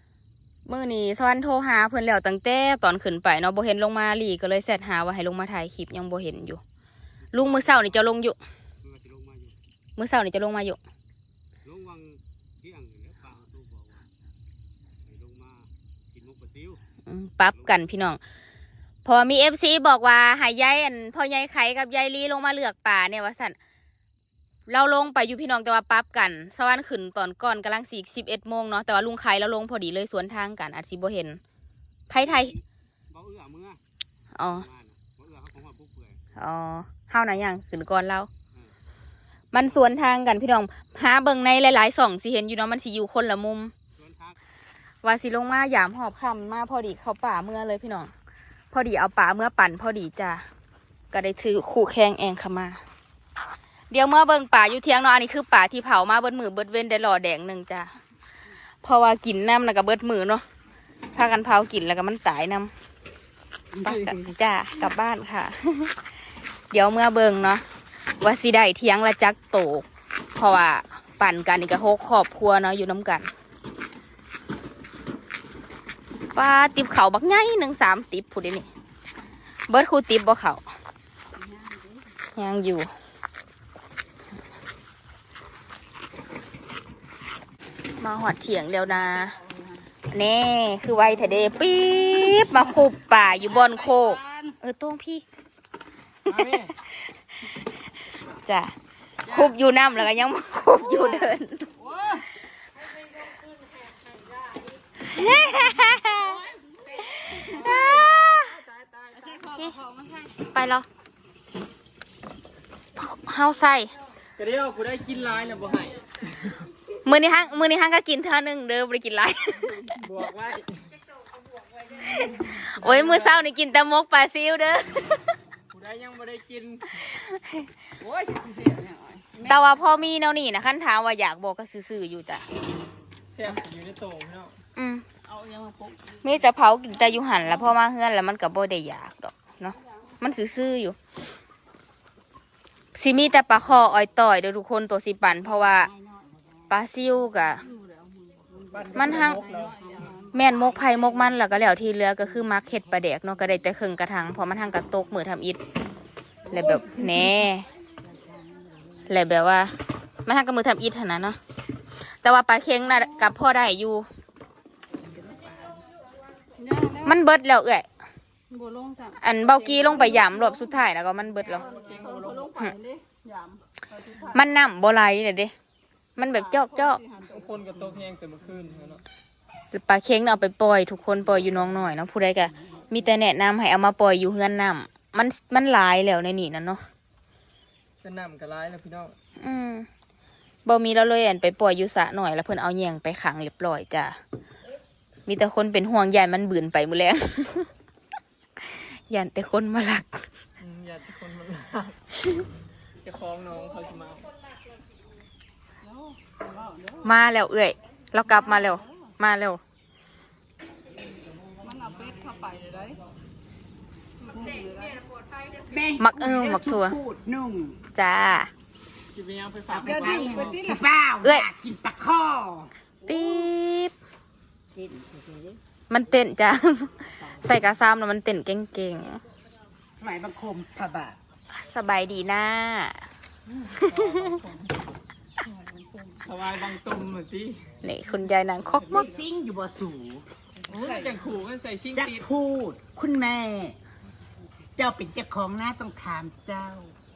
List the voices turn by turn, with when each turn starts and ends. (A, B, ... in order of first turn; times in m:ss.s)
0:00.6-0:06.6 A
0:07.3-0:08.0 B
0:07.3-0:08.4 A
0:08.8-0:09.6 B
0:10.0-0:10.8 A
0:11.6-0:14.0 B
0:15.0-0:16.8 B
0:17.0-0:18.2 A
0:19.0-0:23.6 A
0:24.7-0:31.4 A
0:32.1-0:32.5 A
0:32.1-0:33.8 B
0:34.3-0:34.6 A
0:34.4-0:36.2 B
0:36.4-0:38.3 A
0:39.5-0:43.7 A
0:44.0-0:44.4 B
0:45.0-0:48.1 A
0:48.7-0:50.4 A
0:51.1-0:52.8 A
0:53.9-0:57.9 A
0:58.8-1:00.4 A
1:01.1-1:02.7 A
1:03.8-1:06.0 A
1:06.7-1:07.6 A
1:08.2-1:13.3 A
1:16.3-1:18.7 A
1:19.7-1:20.6 A
1:21.3-1:22.1 C
1:22.4-1:22.9 A
1:28.0-1:29.4 A
1:28.9-1:29.8 C
1:30.1-1:35.2 A
1:31.7-1:32.3 C
1:33.4-1:34.5 C
1:36.3-1:36.7 D
1:38.4-1:38.7 A
1:39.2-1:39.5 C
1:39.3-1:41.7 A
1:40.8-1:42.3 C
1:45.0-1:46.4 A
1:46.1-1:47.8 C
1:47.0-1:48.6 A
1:47.5-1:49.5 D
1:49.1-1:50.4 C
1:50.5-1:50.8 A
1:53.0-1:53.9 A
1:54.4-1:56.0 D
1:57.0-1:59.9 A
1:59.7-2:00.0 C
2:00.0-2:01.0 D
2:01.9-2:05.2 A
2:02.6-2:03.5 D
2:05.7-2:07.0 D
2:07.0-2:07.7 A
2:08.0-2:09.7 C
2:09.4-2:12.4 A
2:13.3-2:14.5 D
2:14.8-2:15.0 A
2:15.2-2:16.3 C
2:16.2-2:21.0 A
2:17.0-2:17.7 C
2:22.9-2:25.9 A
2:25.4-2:26.4 C
2:26.7-2:27.7 A
2:27.5-2:31.2 C
2:28.7-2:29.8 D
2:28.9-2:29.4 A
2:30.3-2:35.6 A
2:36.5-2:37.3 C
2:36.5-2:37.6 A
2:38.0-2:39.0 C
2:39.1-2:41.4 A
2:42.2-2:44.0 A
2:45.2-2:45.8 C
2:46.6-2:47.2 C
2:47.0-2:47.9 A
2:48.5-2:50.8 C
2:49.2-2:51.6 A
2:51.4-2:54.6 C
2:51.5-2:52.4 D
2:54.3-2:55.5 A
2:56.2-2:57.0 A
2:56.3-2:57.6 C
2:57.3-2:59.0 D
2:59.7-3:06.8 A
3:08.0-3:09.1 D
3:09.4-3:09.9 A
3:10.6-3:14.2 A
3:15.3-3:17.7 A
3:18.7-3:20.2 A
3:20.6-3:22.0 D
3:23.0-3:24.3 D
3:25.8-3:27.1 C
3:27.0-3:29.6 A
3:28.3-3:28.8 C
3:31.6-3:33.0 C
3:34.2-3:35.0 C
3:35.6-3:37.8 E
3:36.0-3:37.0 A
3:37.9-3:38.5 A
3:39.1-3:40.7 D
3:39.7-3:42.7 E
3:39.8-3:40.8 C
3:43.0-3:43.9 A
3:44.7-3:45.6 E
3:45.9-3:49.2 A
3:50.0-3:51.2 E
3:51.5-3:53.1 A
3:53.9-3:54.3 D
3:53.9-3:54.4 A
3:55.4-3:56.3 C
3:56.2-3:57.7 D
3:57.8-3:59.1 A
3:58.8-4:00.2 E
4:00.7-4:02.2 D
4:00.7-4:01.2 C
4:02.0-4:03.8 E
4:04.8-4:06.9 E